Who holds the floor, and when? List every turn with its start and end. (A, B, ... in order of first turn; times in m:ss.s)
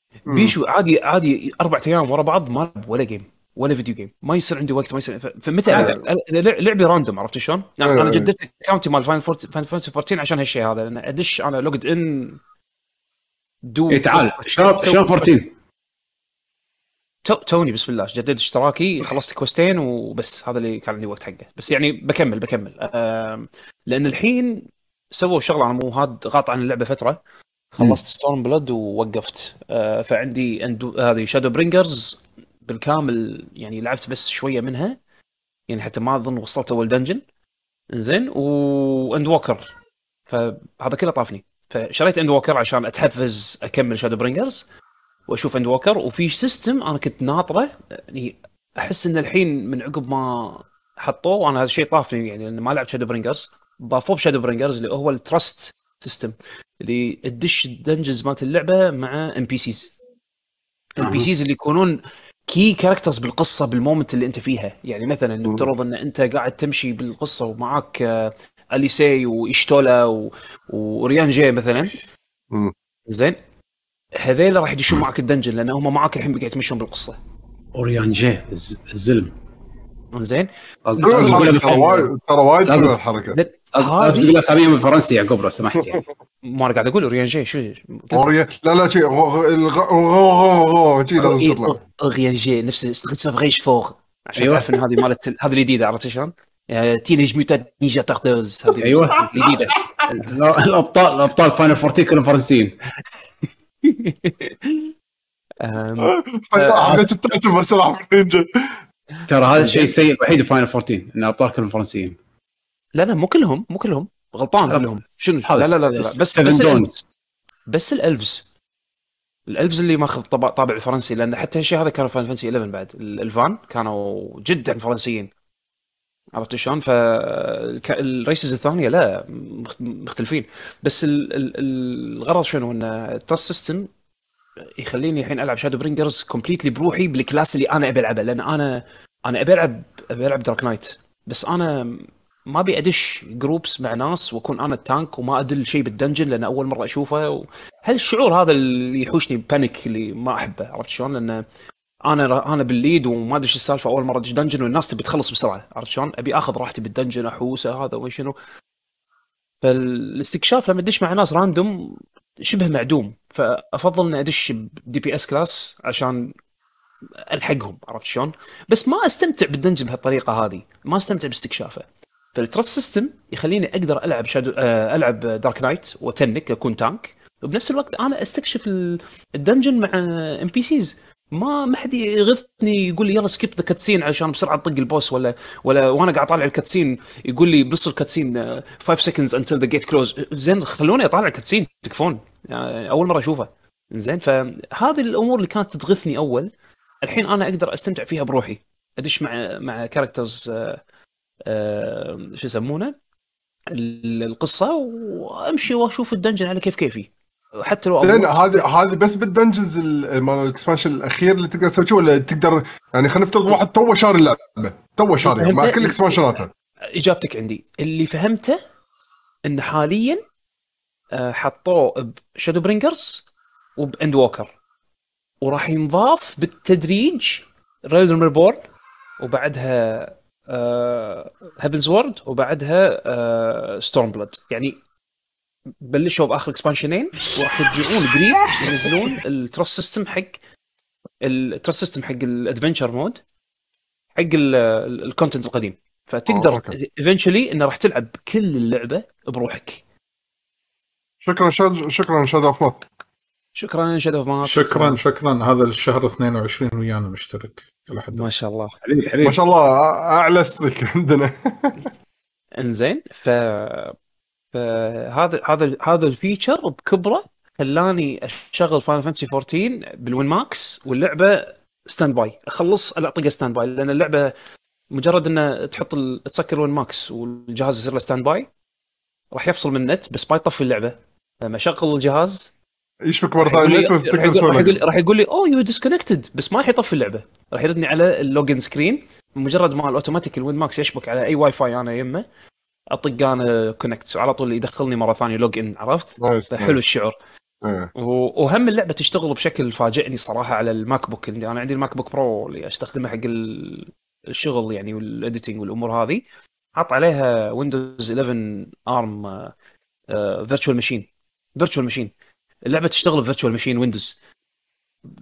0:00.3-0:12.4 A
0:00.3-0:00.6 B
0:05.7-0:06.0 C
0:07.8-0:08.3 B
0:13.7-0:15.4 A
0:13.9-0:15.5 C
0:17.2-0:27.2 A
0:27.8-0:35.0 A
0:35.7-0:37.2 A
0:37.9-0:39.7 A
0:40.3-0:44.6 A
0:45.3-0:59.9 A
1:01.0-1:02.0 A
1:01.0-1:01.3 C
1:02.5-1:12.0 A
1:13.1-1:13.4 A
1:14.2-1:17.2 A
1:17.8-1:19.3 C
1:20.1-1:20.5 A
1:20.9-1:22.1 C
1:21.0-1:22.1 A
1:21.0-1:23.4 B
1:22.6-1:23.0 C
1:23.3-1:24.4 A
1:23.7-1:26.0 C
1:26.4-1:28.3 A
1:28.1-1:31.8 B
1:31.2-1:39.8 A
1:34.4-1:34.7 C
1:38.8-1:39.5 C
1:40.1-1:42.8 C
1:43.8-1:44.9 A
1:45.6-1:47.1 A
1:46.0-1:48.8 B
1:49.3-1:52.2 C
1:49.6-1:49.9 A
1:53.0-1:57.0 A
1:55.4-1:56.9 C
1:57.7-1:58.5 A
1:59.5-2:05.3 A
2:06.3-2:13.9 A
2:14.8-2:31.4 A
2:32.0-2:38.3 A
2:39.6-2:46.3 A
2:47.3-3:16.5 A
3:17.0-3:20.8 A
3:21.5-3:23.0 A
3:23.7-3:27.1 A
3:27.6-3:28.6 A
3:28.0-3:36.5 B
3:35.2-3:36.2 A
3:37.0-3:38.6 A
3:39.4-3:40.2 A
3:41.1-3:44.6 A
3:45.4-3:48.6 A
3:49.2-3:54.8 A
3:55.8-4:00.4 A
3:58.6-3:58.9 C
4:01.2-4:03.2 A
4:04.2-4:09.8 A
4:06.3-4:06.7 B
4:11.2-4:12.9 B
4:13.6-4:15.0 A
4:14.4-4:18.2 D
4:18.1-4:18.8 A
4:18.8-4:19.4 C
4:19.2-4:21.8 B
4:22.6-4:24.0 A
4:24.5-4:34.3 A
4:34.9-4:38.5 A
4:39.3-4:42.5 A
4:43.1-4:44.8 B
4:43.4-4:52.2 A
4:52.9-4:57.2 A
4:56.2-4:56.8 B
4:57.6-4:57.9 B
4:58.0-5:06.2 A
5:06.8-5:09.5 A
5:10.1-5:12.1 A
5:12.7-5:14.2 A